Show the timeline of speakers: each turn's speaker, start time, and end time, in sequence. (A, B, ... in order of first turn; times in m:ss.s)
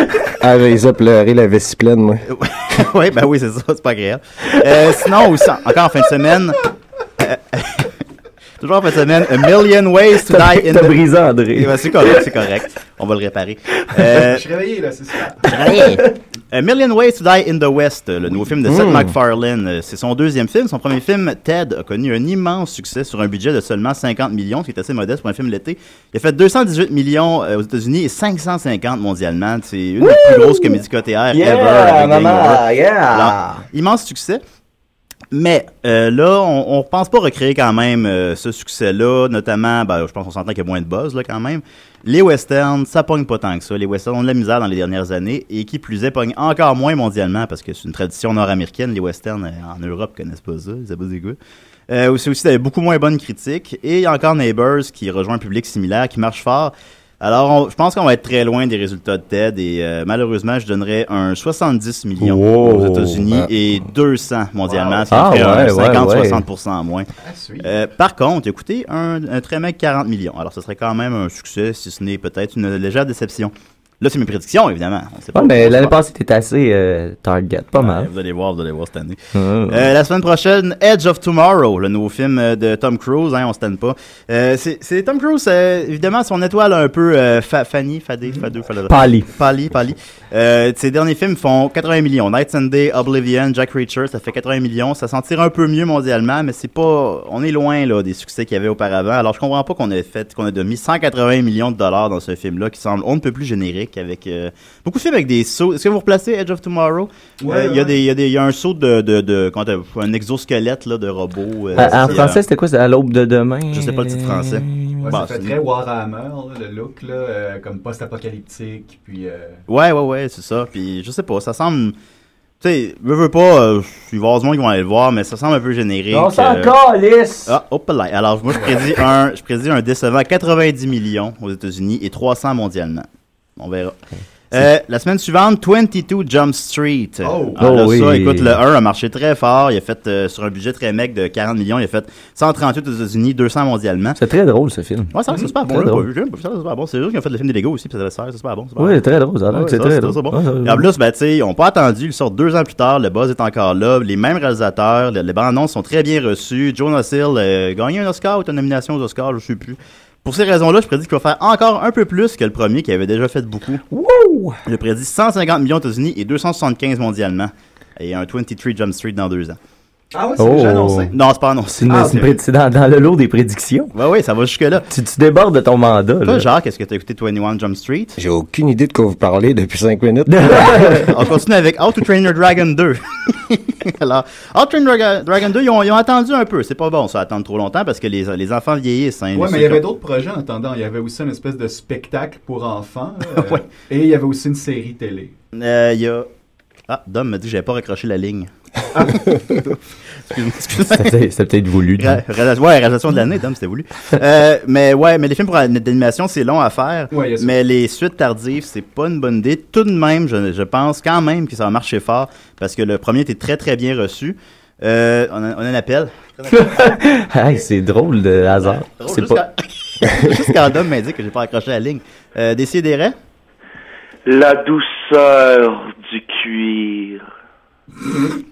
0:00.4-0:02.2 A
0:02.3-0:06.6 B
0:07.2-0:07.9 B
0:08.6-0:11.0 B
0:10.2-0:12.3 C
0:11.5-0:14.4 B
0:14.1-0:15.5 D
0:15.5-0:16.0 C
0:15.5-0:34.4 B
0:30.0-0:30.8 C
0:31.3-0:33.6 C
0:35.3-0:51.4 B
0:51.9-1:07.1 B
1:02.2-1:03.3 C
1:04.6-1:05.4 D
1:05.1-1:06.4 C
1:07.2-1:07.7 D
1:07.6-1:16.0 B
1:15.3-1:18.1 C
1:17.8-1:52.4 B
1:19.3-1:19.9 C
1:28.9-1:29.3 C
1:47.4-1:48.0 D
1:51.8-1:52.2 D
1:51.8-1:55.1 C
1:53.7-1:55.6 B
1:55.0-1:59.6 D
1:59.7-2:01.9 B
2:02.6-2:06.8 B
2:06.1-2:07.5 C
2:07.4-2:13.1 B
2:13.6-2:14.0 B
2:14.5-2:24.2 B
2:17.2-2:17.6 D
2:17.6-2:18.6 C
2:24.2-2:26.0 C
2:25.1-2:43.8 B
2:28.8-2:30.8 C
2:43.9-2:44.6 C
2:44.6-2:49.6 B
2:50.1-2:51.2 D
2:50.4-2:51.1 C
2:51.1-2:52.4 B
2:51.7-2:53.9 C
2:53.9-2:54.8 B
2:54.9-2:56.5 C
2:56.2-2:58.2 B
2:58.2-3:01.1 A
3:00.3-3:01.1 C
3:01.0-3:09.8 B
3:09.3-3:15.3 D
3:13.4-3:13.6 B
3:15.5-3:16.3 B
3:16.9-3:18.5 B
3:18.9-3:19.3 D
3:19.1-3:19.6 B
3:20.2-3:21.2 B
3:20.8-3:22.2 C
3:22.0-3:37.0 B
3:27.1-3:27.5 D
3:36.5-3:39.4 C
3:38.6-3:43.1 B
3:44.3-3:47.2 E